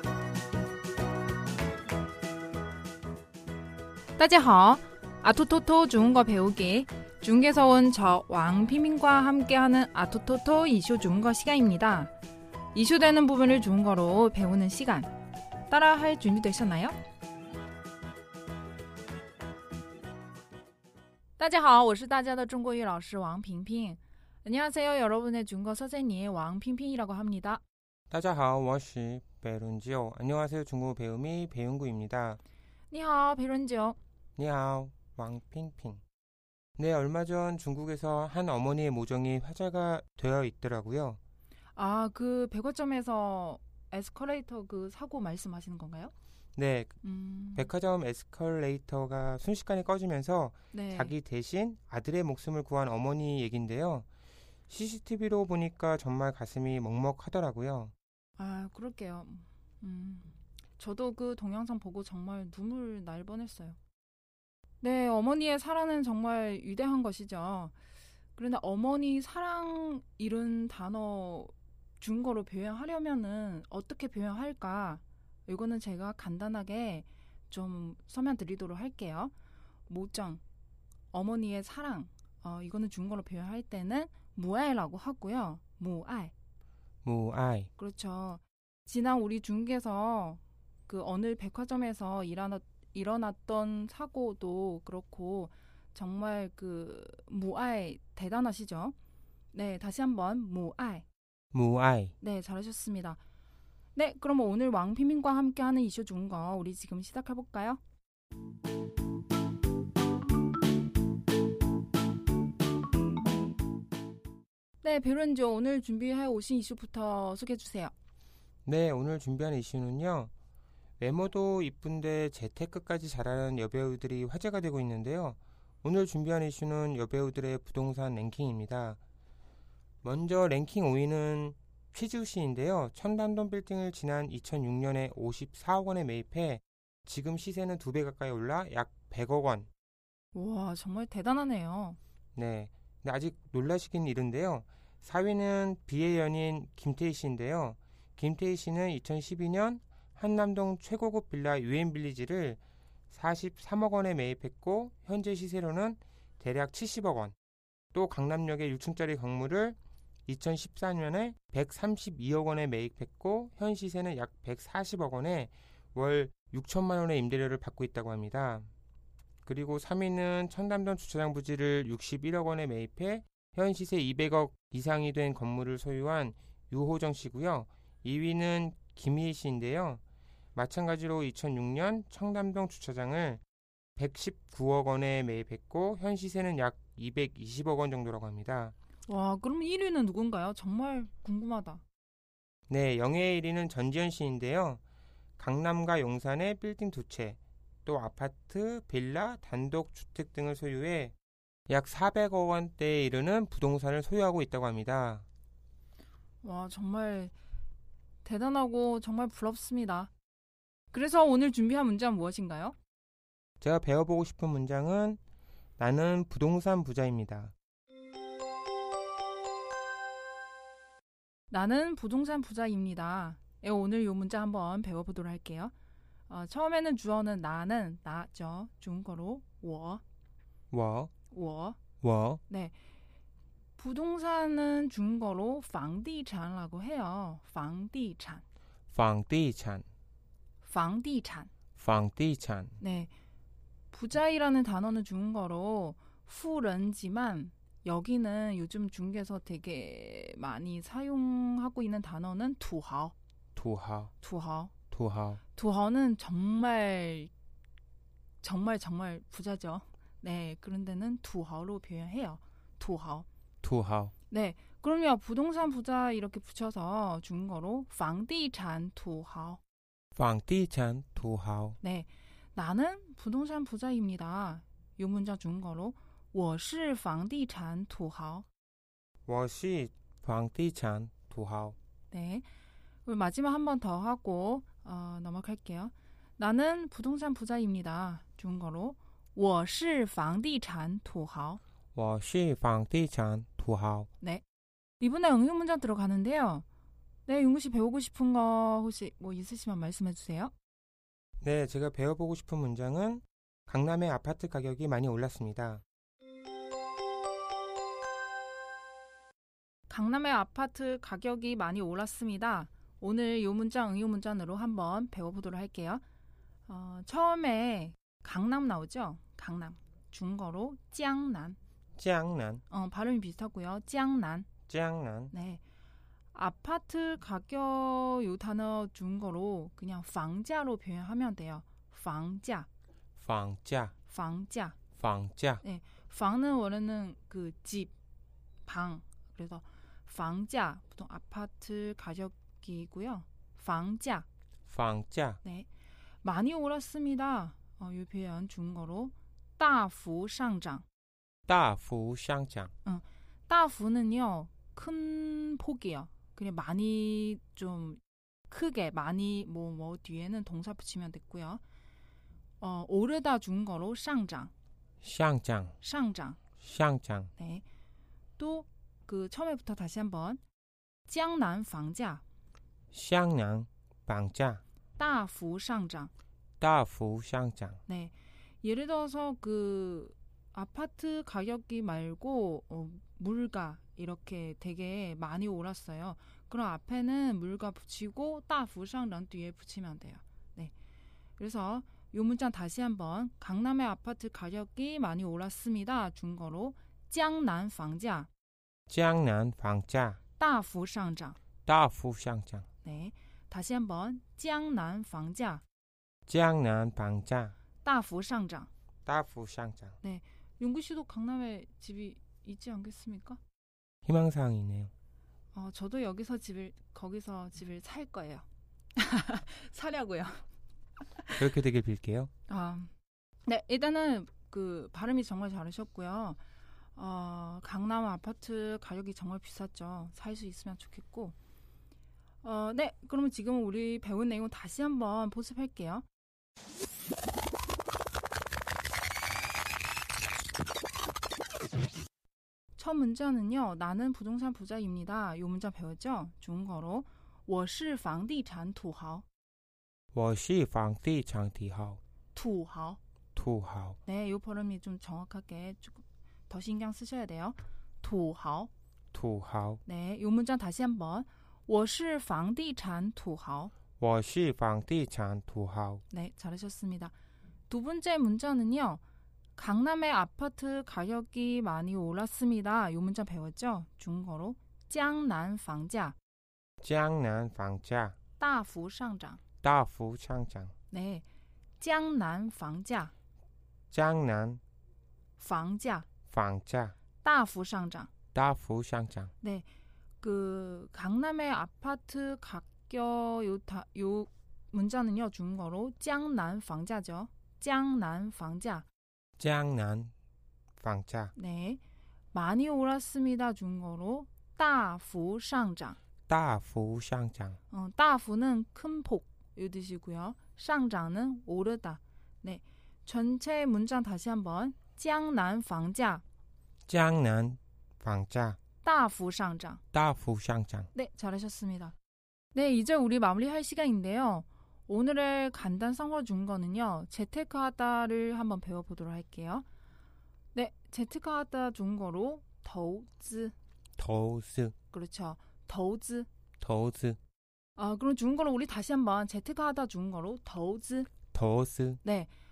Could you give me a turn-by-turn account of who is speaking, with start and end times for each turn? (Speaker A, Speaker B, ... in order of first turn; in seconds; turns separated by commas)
Speaker A: 4.2-12.1, Speaker A: 12.7-15.1, Speaker A: 15.7-16.9, Speaker A: 21.4-27.6, Speaker B: 28.1-32.4, Speaker A: 32.9-34.0, Speaker B: 34.4-36.0, Speaker B: 36.8-41.2, Speaker A: 41.8-46.1, Speaker B: 46.5-47.0, Speaker A: 47.0-47.7, Speaker B: 47.5-54.0, Speaker A: 50.7-51.1, Speaker B: 54.7-57.9, Speaker A: 58.4-63.8, Speaker A: 64.8-67.7, Speaker A: 68.3-79.3, Speaker A: 79.9-80.4, Speaker A: 81.1-86.3, Speaker B: 87.0-87.7, Speaker A: 87.8-98.9, Speaker A: 99.5-101.0, Speaker B: 101.5-102.1, Speaker A: 102.2-103.2, Speaker A: 103.9-107.8, Speaker A: 114.8-117.9, Speaker B: 118.6-120.3, Speaker B: 121.0-129.0, Speaker B: 130.0-139.7, Speaker A: 140.3-142.0, Speaker B: 142.3-157.3, Speaker B: 157.9-168.7, Speaker B: 169.4-180.0, Speaker B: 180.5-183.4, Speaker B: 184.0-188.7, Speaker A: 189.1-191.8, Speaker B: 192.7-194.8, Speaker B: 195.4-201.1, Speaker B: 201.7-205.2, Speaker A: 206.4-207.3, Speaker A: 208.2-210.1, Speaker A: 210.9-212.7, Speaker B: 213.6-215.2, Speaker B: 215.8-217.5, Speaker A: 221.5-225.7, Speaker A: 226.3-230.0, Speaker B: 230.7-231.1, Speaker A: 231.3-231.8, Speaker B: 232.0-232.4, Speaker A: 232.5-232.7, Speaker A: 233.8-238.4, Speaker B: 238.9-239.8, Speaker A: 240.6-241.5, Speaker B: 241.8-242.8, Speaker A: 242.8-243.1, Speaker A: 243.9-253.1, Speaker B: 253.6-254.1, Speaker A: 254.2-254.7, Speaker B: 254.9-255.4, Speaker A: 255.5-257.3, Speaker A: 258.4-263.2, Speaker B: 263.6-264.1, Speaker A: 264.3-269.6, Speaker B: 270.1-271.8, Speaker A: 271.8-278.4, Speaker B: 279.3-281.8, Speaker A: 282.1-282.4, Speaker A: 283.0-291.6, Speaker B: 291.9-294.1, Speaker A: 295.0-296.6, Speaker A: 297.2-300.5, Speaker B: 301.4-305.8, Speaker A: 309.9-316.0, Speaker A: 316.7-321.6, Speaker B: 321.9-322.6, Speaker A: 322.7-324.5, Speaker B: 324.7-325.3, Speaker A: 325.3-325.6, Speaker A: 326.3-332.7, Speaker B: 333.2-333.9, Speaker A: 334.1-334.8, Speaker B: 335.0-335.6, Speaker A: 335.6-337.9, Speaker A: 338.6-344.2, Speaker B: 344.7-345.4, Speaker A: 345.4-345.7, Speaker A: 346.2-350.8, Speaker B: 351.5-352.7, Speaker A: 352.8-361.6, Speaker A: 362.6-364.5, Speaker B: 365.0-365.8, Speaker A: 365.8-366.4, Speaker B: 366.6-367.3, Speaker A: 367.4-367.6, Speaker A: 368.4-370.4, Speaker A: 371.1-372.2, Speaker B: 372.9-374.6, Speaker A: 375.0-376.1, Speaker B: 376.6-377.8, Speaker A: 377.9-390.7, Speaker A: 391.4-398.3, Speaker B: 398.9-400.2, Speaker A: 400.4-401.4, Speaker B: 401.6-402.6, Speaker A: 402.8-405.6, Speaker B: 406.3-407.5, Speaker A: 407.8-408.7, Speaker B: 409.1-410.0, Speaker A: 410.0-413.4, Speaker B: 414.0-414.9, Speaker A: 415.5-418.4, Speaker A: 418.9-420.4, Speaker B: 421.4-422.3, Speaker A: 422.5-422.9, Speaker A: 423.4-426.4, Speaker A: 426.9-431.3, Speaker A: 432.4-436.0, Speaker A: 442.8-449.2, Speaker B: 450.1-452.0, Speaker A: 452.3-453.0, Speaker B: 453.3-454.0, Speaker A: 454.0-458.7, Speaker B: 459.1-459.8, Speaker A: 459.9-463.7, Speaker B: 464.0-466.0, Speaker A: 466.1-467.1, Speaker A: 467.7-469.0, Speaker A: 469.6-476.1, Speaker B: 476.8-478.1, Speaker A: 478.4-479.4, Speaker B: 479.6-480.7, Speaker A: 480.9-481.2, Speaker A: 481.8-483.1, Speaker B: 483.9-484.6, Speaker A: 485.4-486.1, Speaker B: 486.3-486.9, Speaker A: 487.2-488.1, Speaker B: 488.3-489.3, Speaker A: 490.2-498.9, Speaker B: 499.4-500.1, Speaker B: 500.8-501.3, Speaker A: 501.4-501.8, Speaker A: 502.3-506.0, Speaker B: 506.3-507.6, Speaker A: 507.7-516.2, Speaker B: 516.9-518.6, Speaker A: 518.8-519.8, Speaker B: 519.9-520.9, Speaker A: 520.9-521.9, Speaker A: 522.5-529.6, Speaker A: 530.5-533.5, Speaker B: 534.0-534.7, Speaker A: 534.9-536.3, Speaker B: 536.6-537.2, Speaker A: 537.8-541.1, Speaker B: 541.3-542.0, Speaker A: 542.0-542.3